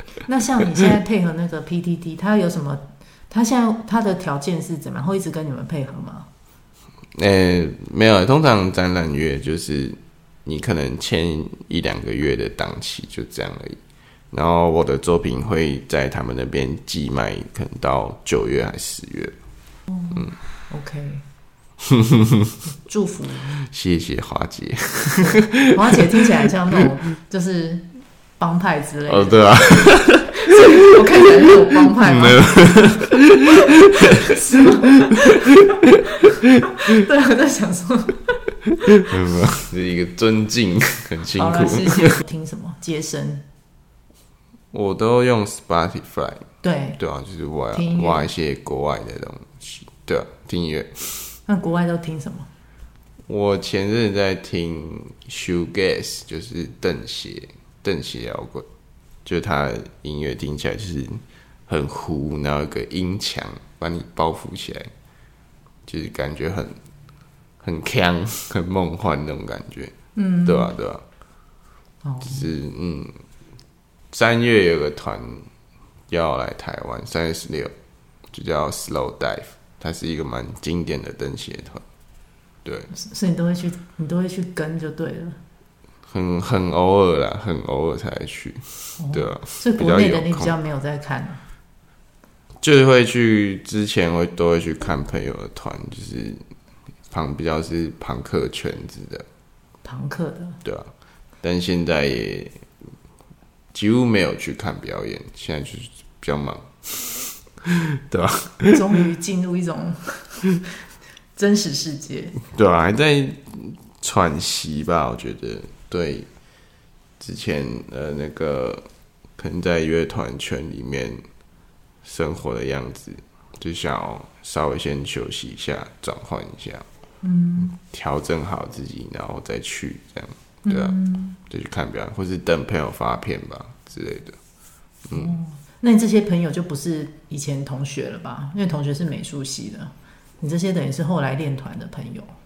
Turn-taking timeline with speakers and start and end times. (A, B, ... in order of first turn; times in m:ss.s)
0:00.3-0:06.3 A
0:07.2-0:13.8 B
0:14.3-0:19.4 B
0:19.9-0:21.2 A
0:21.9-0:22.6 B
0:22.9-0:23.6 A
0:23.7-0:25.7 B
0:25.3-0:27.9 A
0:28.4-0:29.9 A
0:29.1-0:30.4 B
0:30.4-0:32.6 A
0:32.0-0:33.5 B
0:33.5-0:35.7 A
0:36.2-0:38.4 A
0:39.0-0:42.2 B
0:41.4-0:43.4 A
0:44.7-0:46.4 B
0:46.6-0:47.0 A
0:47.0-0:51.4 B
0:47.7-0:48.3 A
0:51.5-0:52.5 A
0:53.3-0:58.7 B
0:59.2-1:04.9 B
1:05.9-1:06.8 B
1:07.6-1:09.9 B
1:10.2-1:10.7 A
1:10.5-1:11.0 B
1:12.0-1:12.4 A
1:12.2-1:13.1 B
1:14.1-1:15.5 B
1:16.1-1:17.7 B
1:18.3-1:21.8 B
1:22.6-1:22.9 B
1:22.9-1:25.4 A
1:26.1-1:30.5 B
1:29.0-1:31.4 A
1:32.6-1:36.4 B
1:37.1-1:39.3 B
1:39.8-1:40.6 A
1:40.6-1:40.9 B
1:41.4-1:42.6 B
1:43.7-1:48.8 B
1:48.7-1:50.5 A
1:51.4-1:52.4 A
1:52.5-1:56.3 B
1:57.2-1:58.9 B
1:59.4-2:01.2 B
2:02.0-2:06.8 B
2:07.2-2:07.8 A
2:07.7-2:14.4 B
2:10.6-2:11.4 A
2:15.1-2:22.3 A